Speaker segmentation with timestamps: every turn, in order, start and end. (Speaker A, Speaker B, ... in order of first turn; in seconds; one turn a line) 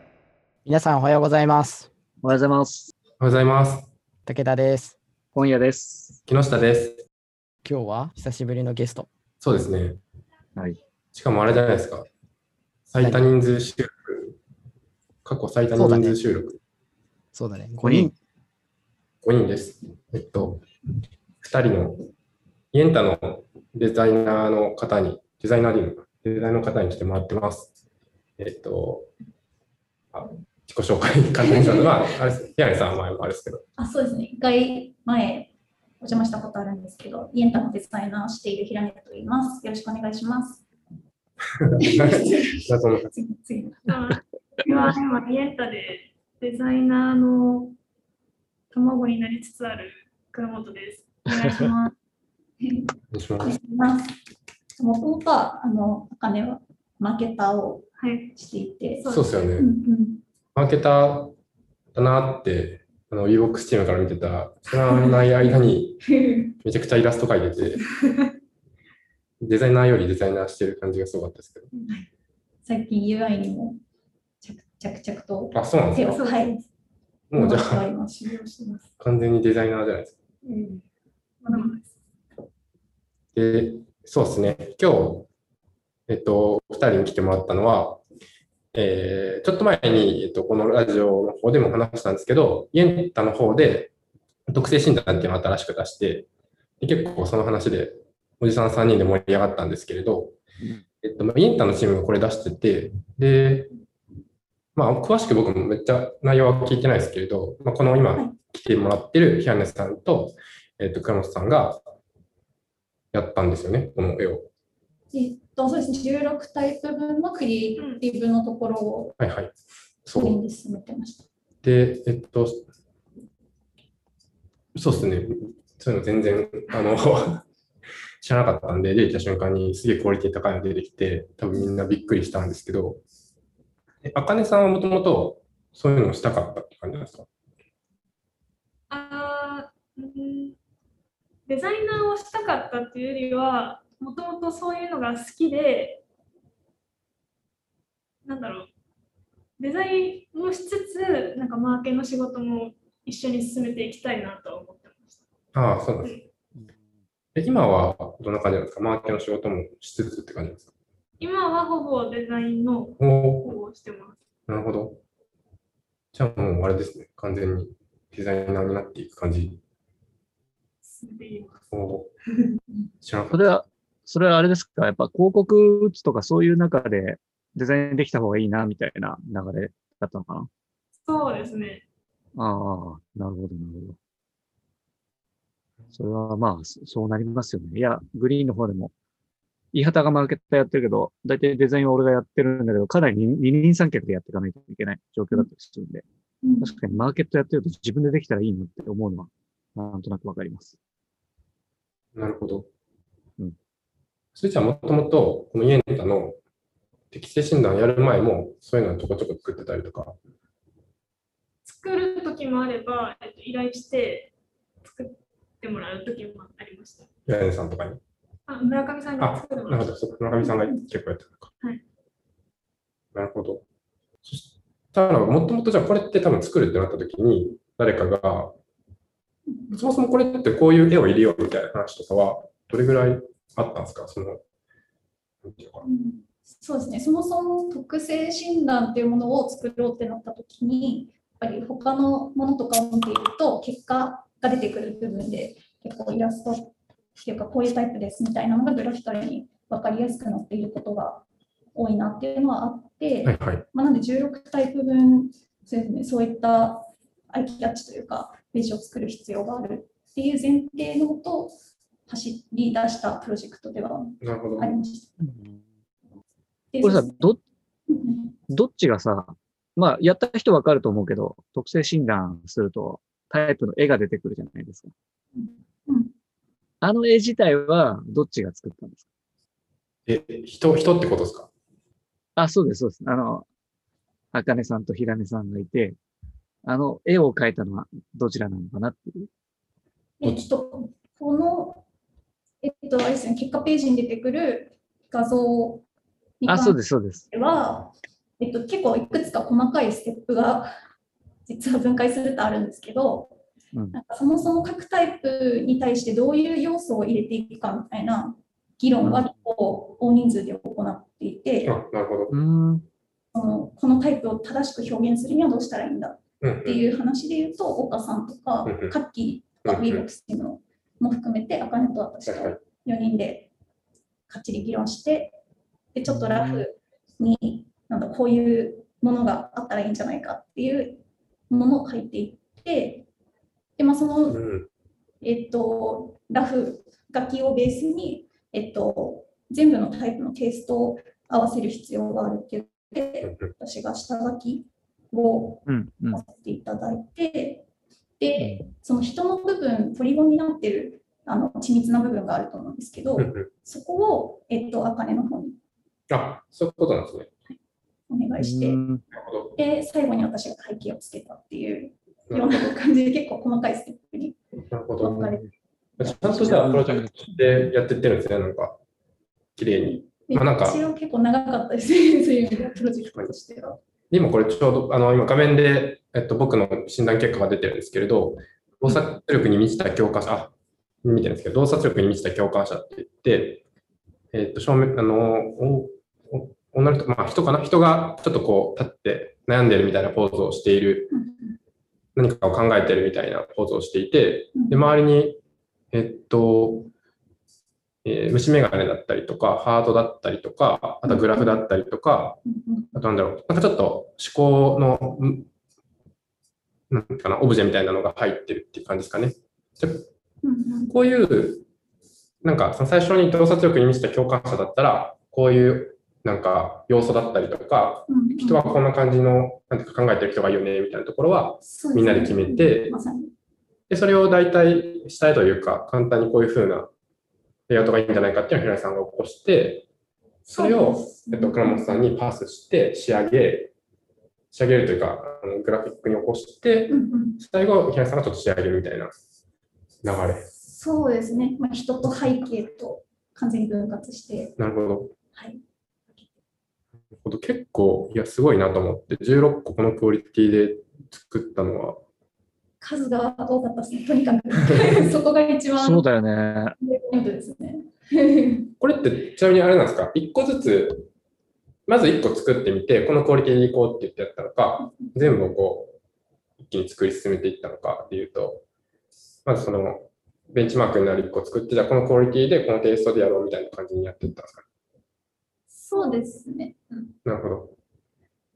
Speaker A: 0.6-1.9
Speaker B: 2.2-2.9
Speaker C: 3.2-3.9
Speaker A: 4.2-5.0
Speaker B: 5.3-6.2
Speaker C: 6.2-7.0
Speaker A: 7.6-9.1
Speaker C: 9.4-10.0
Speaker C: 11.1-12.1
Speaker C: 12.9-14.3
Speaker A: 13.0-13.2
Speaker C: 15.2-16.6
Speaker A: 15.7-16.2
Speaker A: 17.3-18.1
Speaker B: 17.8-18.1
Speaker C: 19.2-20.6
Speaker C: 21.4-22.1
Speaker C: 22.7-27.7
Speaker C: 28.4-29.1
Speaker C: 30.1-33.6
Speaker D: 33.8-40.6
Speaker C: 41.6-43.1
Speaker D: 41.8-43.9
Speaker E: 43.9-47.7
Speaker E: 48.7-51.7
Speaker D: 51.5-51.9
Speaker D: 52.6-54.1
Speaker C: 53.1-53.5
Speaker D: 54.8-60.2
Speaker E: 58.0-58.3
Speaker E: 59.0-59.3
Speaker C: 59.0-59.7
Speaker C: 60.5-61.3
Speaker C: 61.9-66.0
Speaker D: 64.7-65.5
Speaker D: 66.0-66.5
Speaker C: 66.6-67.8
Speaker C: 69.4-71.7
Speaker D: 72.6-73.8
Speaker D: 74.4-76.6
Speaker C: 75.5-76.2
Speaker E: 76.1-76.6
Speaker C: 77.3-77.9
Speaker D: 77.3-78.8
Speaker C: 79.0-80.2
Speaker E: 80.4-80.8
Speaker E: 81.4-81.8
Speaker C: 83.3-85.3
Speaker C: 86.1-88.0
Speaker C: 88.7-93.9
Speaker C: 94.5-96.3
Speaker C: 96.8-100.4
Speaker C: 101.0-103.7
Speaker C: 104.8-111.8
Speaker C: 113.1-114.5
Speaker D: 115.1-119.2
Speaker C: 119.2-120.4
Speaker D: 120.2-121.3
Speaker C: 121.6-122.6
Speaker C: 124.7-127.4
Speaker C: 128.2-133.0
Speaker C: 134.0-137.2
Speaker E: 138.9-140.6
Speaker E: 141.5-146.0
Speaker E: 148.2-148.7
Speaker E: 149.6-155.2
Speaker C: 155.5-156.2
Speaker C: 157.3-160.7
Speaker E: 161.2-164.2
Speaker C: 163.0-163.5
Speaker C: 164.5-165.0
Speaker C: 166.1-169.6
Speaker E: 170.8-171.7
Speaker C: 171.7-172.1
Speaker E: 172.3-172.6
Speaker C: 173.0-173.5
Speaker B: 173.3-180.5
Speaker E: 181.0-181.8
Speaker B: 182.3-183.9
Speaker B: 185.9-188.9
Speaker B: 189.7-196.0
Speaker D: 196.4-196.8
Speaker B: 196.6-200.8
Speaker C: 202.1-202.7
Speaker C: 204.3-206.4
Speaker C: 207.1-210.2
Speaker E: 211.6-214.3
Speaker E: 214.8-217.1
Speaker C: 217.3-218.0
Speaker E: 218.5-219.9
Speaker C: 219.2-221.5
Speaker D: 220.4-220.8
Speaker C: 223.1-223.6
Speaker C: 224.2-228.5
Speaker D: 229.5-229.8
Speaker C: 229.7-234.4
Speaker C: 235.4-235.8
Speaker D: 235.8-261.5
Speaker C: 253.2-253.6
Speaker D: 262.1-265.1
Speaker C: 264.2-264.7
Speaker B: 265.2-265.6
Speaker D: 266.7-267.3
Speaker B: 266.8-267.4
Speaker D: 267.9-268.3
Speaker B: 268.5-274.9
Speaker D: 275.3-276.1
Speaker B: 276.8-279.0
Speaker C: 280.1-281.5
Speaker B: 282.4-283.4
Speaker B: 284.3-286.0
Speaker B: 286.6-289.3
Speaker D: 290.2-291.8
Speaker D: 292.6-295.8
Speaker D: 296.4-300.7
Speaker B: 296.4-297.2
Speaker D: 301.4-303.4
Speaker B: 303.7-304.0
Speaker D: 303.9-311.8
Speaker B: 309.0-309.3
Speaker C: 311.6-312.3
Speaker B: 312.3-312.9
Speaker D: 313.3-323.5
Speaker C: 316.4-316.9
Speaker C: 318.6-318.9
Speaker C: 319.6-320.1
Speaker C: 322.2-322.6
Speaker D: 324.3-325.4
Speaker D: 325.9-333.1
Speaker B: 326.1-326.6
Speaker D: 333.8-334.4
Speaker C: 334.3-334.7
Speaker D: 335.2-347.6
Speaker C: 343.2-343.5
Speaker B: 345.6-346.2
Speaker D: 348.2-355.6
Speaker B: 348.4-348.7
Speaker C: 353.2-353.5
Speaker C: 356.1-357.3
Speaker D: 358.1-358.8
Speaker B: 358.4-359.0
Speaker C: 359.1-359.6
Speaker D: 359.6-364.4
Speaker C: 362.3-362.7
Speaker C: 364.7-365.3
Speaker D: 365.0-365.4
Speaker B: 365.1-365.5
Speaker C: 366.0-368.8
Speaker D: 366.0-366.6
Speaker B: 366.3-367.7
Speaker C: 369.6-370.8
Speaker D: 369.8-373.8
Speaker C: 374.1-380.5
Speaker C: 381.0-383.6
Speaker C: 384.3-391.1
Speaker D: 391.1-391.6
Speaker C: 392.1-395.4
Speaker D: 394.5-394.9
Speaker C: 395.9-396.9
Speaker C: 398.0-402.4
Speaker D: 401.0-401.6
Speaker D: 402.4-403.0
Speaker C: 402.9-405.5
Speaker C: 406.9-410.1
Speaker D: 410.4-410.9
Speaker C: 410.9-411.6
Speaker C: 412.4-423.0
Speaker D: 418.1-418.8
Speaker D: 421.6-423.3
Speaker C: 423.9-426.9
Speaker C: 427.7-429.9
Speaker C: 430.4-433.7
Speaker D: 430.5-432.1
Speaker C: 434.5-439.1
Speaker D: 436.9-437.4
Speaker C: 440.0-440.5
Speaker D: 440.6-444.5
Speaker C: 444.6-445.1
Speaker D: 445.3-445.6
Speaker C: 447.2-452.0
Speaker D: 452.8-456.0
Speaker C: 454.6-455.0
Speaker B: 455.8-456.7
Speaker D: 456.8-458.7
Speaker C: 458.8-461.1
Speaker C: 461.9-465.9
Speaker C: 466.6-468.6
Speaker C: 469.4-474.6
Speaker D: 475.7-477.1
Speaker E: 475.9-476.2
Speaker C: 477.2-477.7